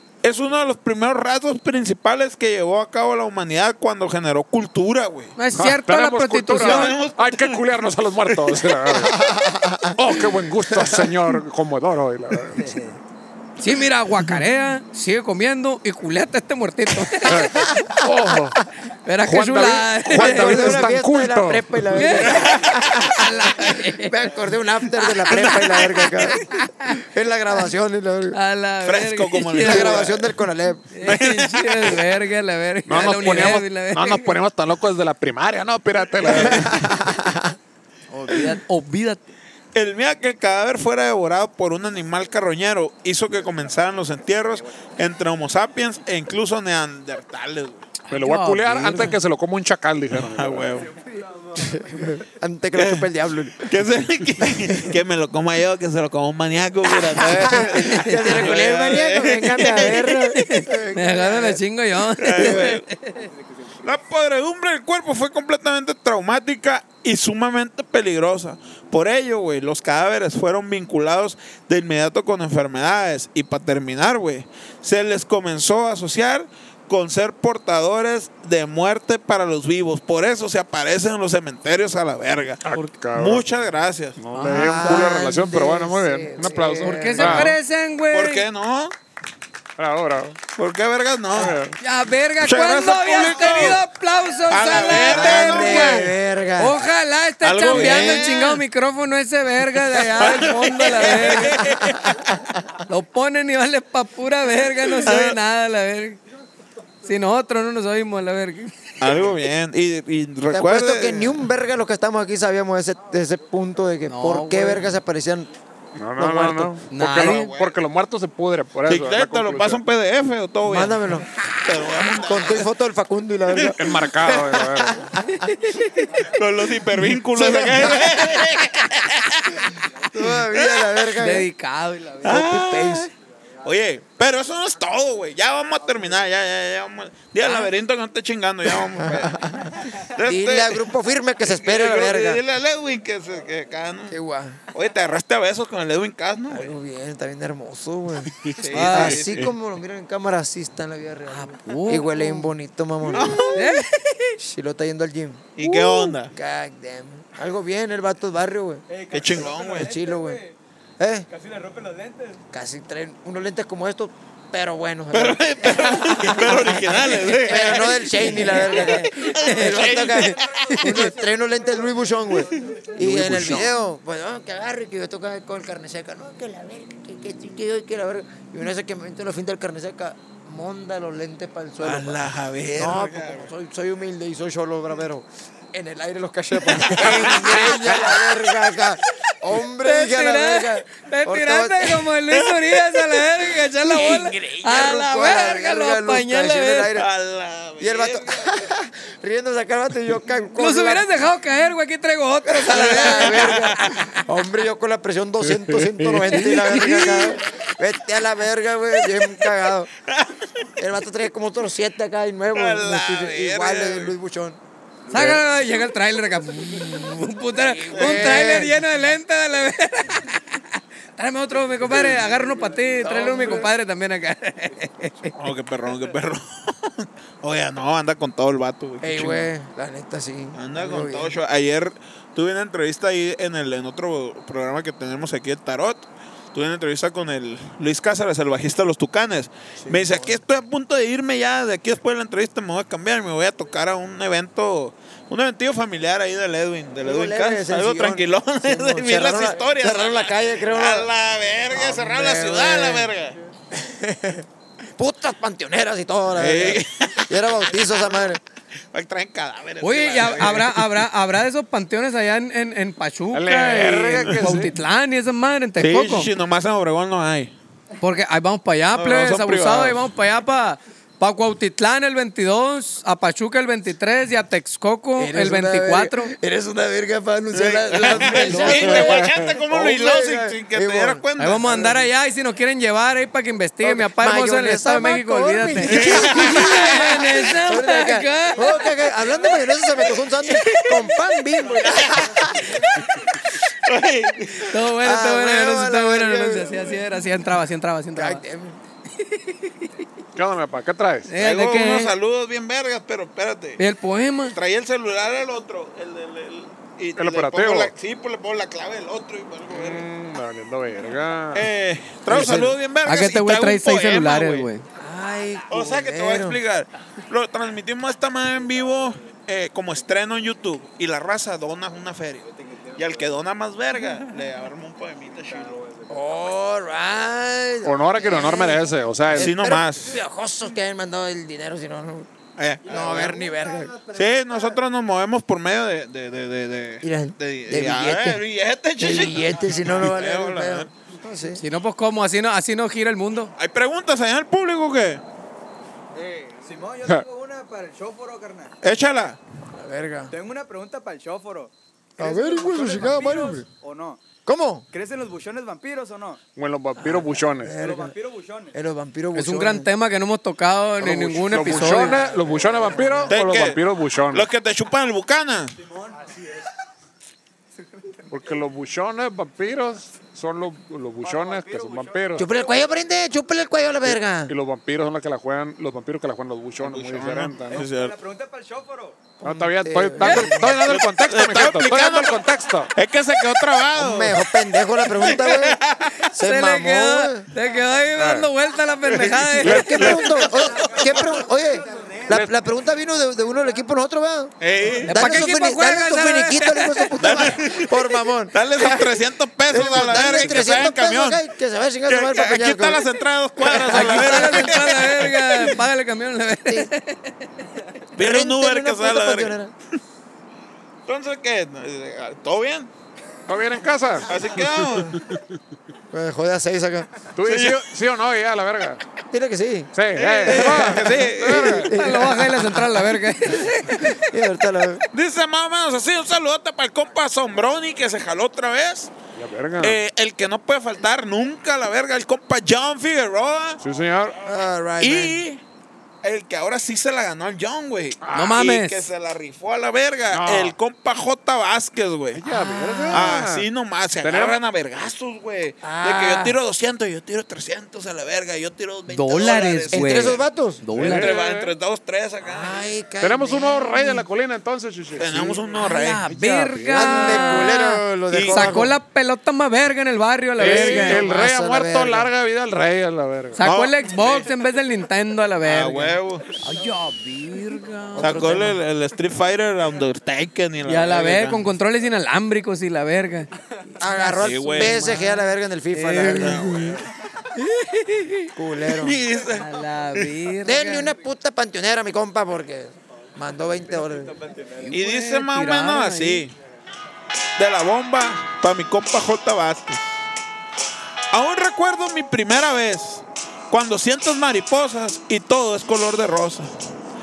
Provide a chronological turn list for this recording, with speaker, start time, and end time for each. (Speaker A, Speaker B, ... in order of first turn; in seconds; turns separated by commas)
Speaker A: 0.2-5.3, Speaker B: 5.4-7.0, Speaker C: 5.5-9.2, Speaker A: 6.5-7.6, Speaker D: 9.1-10.0, Speaker C: 9.9-12.8, Speaker B: 13.6-17.5, Speaker C: 17.2-18.6, Speaker D: 17.5-18.1, Speaker B: 19.0-20.9, Speaker C: 19.2-21.8, Speaker D: 20.1-28.4, Speaker B: 21.9-24.1, Speaker A: 22.3-22.6, Speaker A: 25.5-25.9, Speaker B: 26.2-27.0, Speaker B: 28.3-30.1, Speaker A: 28.8-30.4, Speaker D: 29.6-30.8, Speaker B: 30.9-34.4, Speaker A: 31.0-32.0, Speaker C: 32.9-36.9, Speaker D: 36.3-37.5, Speaker B: 38.1-39.2, Speaker A: 39.7-47.8, Speaker B: 48.1-49.0, Speaker C: 48.1-50.7, Speaker D: 48.7-49.1, Speaker A: 50.1-50.9, Speaker D: 51.5-53.7, Speaker A: 52.7-53.1, Speaker A: 53.6-60.1, Speaker D: 57.0-61.6, Speaker B: 57.7-58.2, Speaker B: 59.9-63.3, Speaker A: 62.2-62.9, Speaker A: 63.8-84.2, Speaker C: 82.7-83.4, Speaker C: 84.2-87.5, Speaker B: 84.3-85.2, Speaker D: 84.5-87.4, Speaker B: 86.8-88.5, Speaker A: 87.2-87.5, Speaker A: 88.1-88.9, Speaker C: 89.8-90.4, Speaker A: 90.5-91.6, Speaker C: 91.3-91.7, Speaker B: 91.8-101.7, Speaker A: 92.4-93.8, Speaker A: 94.5-96.1, Speaker D: 95.0-96.8, Speaker A: 97.4-98.6, Speaker D: 97.7-98.2, Speaker A: 99.9-102.5, Speaker D: 101.6-102.2, Speaker B: 102.9-106.2, Speaker A: 105.0-105.4, Speaker B: 107.0-108.7, Speaker A: 109.0-111.4, Speaker D: 110.5-115.5, Speaker B: 114.1-114.8, Speaker C: 116.0-119.8, Speaker D: 116.2-116.8, Speaker B: 116.9-117.5, Speaker A: 117.2-117.8, Speaker A: 118.8-122.7, Speaker D: 120.6-121.3, Speaker D: 122.0-125.5, Speaker C: 123.8-125.1, Speaker A: 126.1-131.0, Speaker D: 127.3-128.2, Speaker D: 130.1-131.5, Speaker B: 131.2-132.4, Speaker D: 132.2-133.1, Speaker A: 132.2-133.1, Speaker A: 133.6-140.9, Speaker D: 139.0-142.4, Speaker A: 141.4-144.2, Speaker D: 144.1-144.6, Speaker A: 144.7-146.7, Speaker D: 146.5-153.5, Speaker C: 148.4-149.5, Speaker A: 148.6-149.4, Speaker B: 148.7-149.2, Speaker B: 151.3-152.4, Speaker A: 153.1-153.7, Speaker B: 153.5-154.3, Speaker D: 154.4-155.6, Speaker A: 155.6-156.3, Speaker B: 155.6-156.1, Speaker D: 156.2-158.8, Speaker E: 158.9-160.6, Speaker A: 159.1-159.9, Speaker D: 159.8-160.4, Speaker D: 161.0-161.2, Speaker E: 161.3-162.4, Speaker D: 162.5-182.2, Speaker A: 165.1-170.9, Speaker B: 167.7-171.1, Speaker A: 172.6-173.6, Speaker B: 173.0-173.7, Speaker A: 181.8-183.5, Speaker D: 182.7-192.1, Speaker A: 186.7-188.3, Speaker B: 189.8-196.9, Speaker D: 193.8-197.1, Speaker A: 196.9-198.6, Speaker D: 197.8-201.1, Speaker B: 200.6-204.2, Speaker D: 202.4-209.9, Speaker A: 202.7-203.7, Speaker C: 205.5-206.3, Speaker B: 206.3-207.3, Speaker A: 210.1-210.3, Speaker D: 210.8-214.6, Speaker A: 212.5-214.1, Speaker B: 215.1-225.3, Speaker C: 215.1-215.4, Speaker D: 217.5-218.8, Speaker A: 217.9-218.6, Speaker D: 223.0-223.7, Speaker A: 225.3-229.5, Speaker D: 229.0-231.3, Speaker A: 230.5-253.3, Speaker D: 239.8-240.4, Speaker D: 247.0-251.1, Speaker D: 251.7-253.1, Speaker D: 253.7-254.4, Speaker D: 255.0-258.4, Speaker A: 256.4-257.7, Speaker A: 258.9-260.9, Speaker B: 259.8-266.3, Speaker C: 263.3-264.7, Speaker A: 263.8-264.5, Speaker A: 265.8-267.6, Speaker B: 268.0-276.3, Speaker A: 268.9-270.0, Speaker D: 275.2-281.2, Speaker A: 277.5-281.9, Speaker B: 278.1-279.3, Speaker B: 281.4-289.0, Speaker D: 283.8-292.7, Speaker A: 285.9-286.7, Speaker E: 289.2-289.6, Speaker B: 290.4-290.9, Speaker A: 291.9-292.2, Speaker A: 293.5-294.8, Speaker B: 294.6-298.4, Speaker D: 295.0-296.9, Speaker D: 298.1-298.8, Speaker B: 299.1-300.0, Speaker C: 300.3-301.3, Speaker B: 301.3-302.1, Speaker A: 301.4-303.8, Speaker B: 303.8-304.6, Speaker A: 304.5-310.1, Speaker C: 307.2-307.9, Speaker C: 309.7-311.7, Speaker A: 311.5-314.7, Speaker D: 312.3-312.8, Speaker B: 312.3-314.8, Speaker D: 315.0-316.6, Speaker A: 315.7-325.8, Speaker E: 325.7-326.0, Speaker D: 326.1-332.3, Speaker C: 327.8-329.5, Speaker A: 329.3-330.1, Speaker A: 332.6-333.4, Speaker D: 332.9-334.0, Speaker A: 334.1-340.9, Speaker D: 337.0-338.4, Speaker D: 339.0-341.6, Speaker B: 341.6-343.5, Speaker A: 343.6-345.2, Speaker E: 346.1-348.7, Speaker A: 348.8-349.4, Speaker D: 349.7-350.3, Speaker E: 350.3-354.2, Speaker D: 352.2-353.7, Speaker D: 354.4-354.9, Speaker E: 354.9-356.4, Speaker C: 356.5-357.8, Speaker D: 357.0-358.1, Speaker E: 357.8-358.8, Speaker D: 358.7-359.9, Speaker B: 359.3-362.2, Speaker C: 361.0-364.5, Speaker D: 361.7-363.3, Speaker E: 362.1-363.3, Speaker A: 363.3-365.8, Speaker E: 365.9-366.4, Speaker C: 368.3-372.4, Speaker E: 371.2-372.5, Speaker D: 372.4-374.5, Speaker C: 374.5-377.9, Speaker A: 376.8-378.1, Speaker E: 377.7-379.4, Speaker D: 379.4-380.8, Speaker C: 379.4-382.9, Speaker A: 380.6-382.4, Speaker A: 382.9-386.1, Speaker D: 383.9-387.5, Speaker B: 386.3-390.1, Speaker C: 388.1-388.5, Speaker A: 389.6-391.3, Speaker D: 389.6-394.5, Speaker C: 389.6-390.4, Speaker A: 394.6-395.2, Speaker B: 395.1-397.1, Speaker D: 395.1-403.0, Speaker A: 397.2-397.9, Speaker A: 398.5-401.4, Speaker A: 402.1-405.4, Speaker D: 403.6-404.8, Speaker B: 403.7-407.5, Speaker A: 408.1-409.6, Speaker D: 408.2-409.7, Speaker A: 411.1-412.9, Speaker C: 413.5-414.3, Speaker A: 414.2-415.2, Speaker C: 414.9-415.4, Speaker D: 416.1-417.1, Speaker C: 417.4-419.0, Speaker A: 417.4-417.8, Speaker D: 419.3-419.9, Speaker C: 419.9-421.9, Speaker A: 420.1-421.9, Speaker D: 420.5-423.2, Speaker B: 421.9-424.1, Speaker D: 423.7-425.0, Speaker A: 425.1-429.1, Speaker C: 429.3-430.0, Speaker A: 429.8-433.8, Speaker C: 433.8-434.4, Speaker D: 434.4-435.4, Speaker A: 435.0-435.6, Speaker A: 436.2-442.4, Speaker C: 438.2-438.6, Speaker B: 438.3-439.0, Speaker C: 440.3-440.7, Speaker C: 442.3-443.6, Speaker D: 442.4-443.4, Speaker A: 443.1-450.4, Speaker C: 444.2-444.6, Speaker D: 445.8-446.6, Speaker B: 449.1-451.3, Speaker D: 449.9-450.8, Speaker A: 450.9-452.8, Speaker C: 451.0-451.7, Speaker D: 452.4-454.2, Speaker C: 453.2-455.5, Speaker A: 455.2-456.2, Speaker D: 455.3-455.6, Speaker B: 455.7-461.2, Speaker C: 456.3-457.7, Speaker D: 456.9-458.9, Speaker A: 458.3-458.9, Speaker C: 460.6-463.6, Speaker D: 460.6-462.3, Speaker B: 463.5-468.5, Speaker A: 463.6-464.5, Speaker A: 465.6-466.4, Speaker D: 468.1-468.8, Speaker A: 468.2-471.6, Speaker B: 470.8-473.5, Speaker D: 474.0-476.8, Speaker B: 474.0-476.7, Speaker A: 474.4-475.0, Speaker A: 476.3-477.1, Speaker B: 477.6-478.5, Speaker D: 478.5-479.2, Speaker A: 478.9-480.3, Speaker B: 479.4-481.1, Speaker D: 480.6-484.4, Speaker B: 484.8-486.5, Speaker A: 484.9-486.5, Speaker A: 487.6-490.2, Speaker A: 491.3-496.7